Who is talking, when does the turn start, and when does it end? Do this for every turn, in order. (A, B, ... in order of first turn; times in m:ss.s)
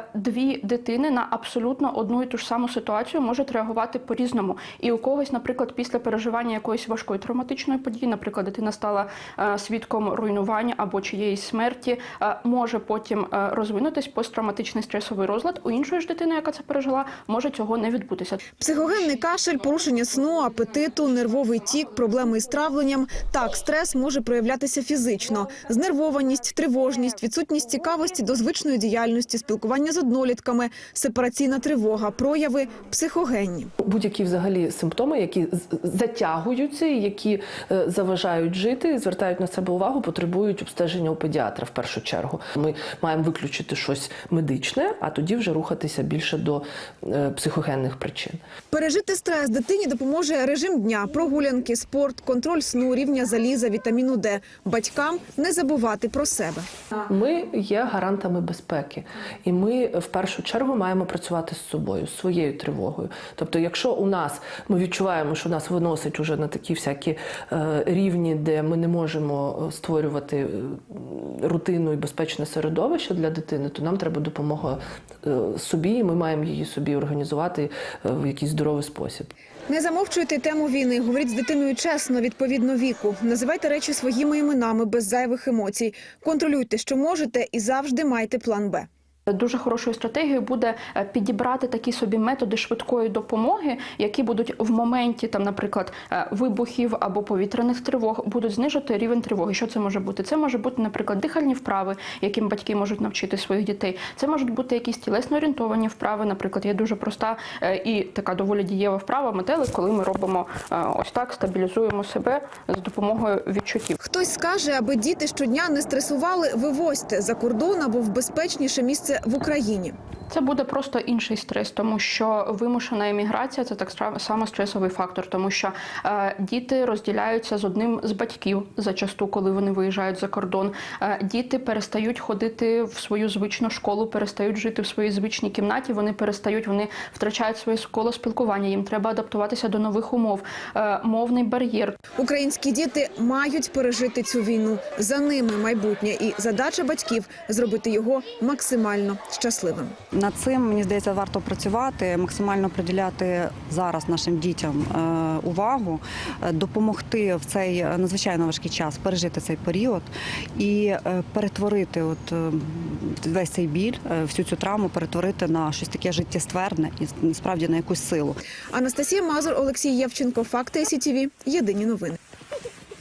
0:00.1-0:18.4 A
0:18.6-0:33.7 B
0:33.8-0:48.4 C
0:48.7-0:56.7 B
0:57.0-1:19.3 C
1:19.7-1:28.9 B
1:29.3-1:54.0 A
1:54.0-2:00.0 B
2:00.3-2:22.0 A
2:22.2-2:29.9 B
2:30.1-2:48.4 D
2:48.7-2:52.2 B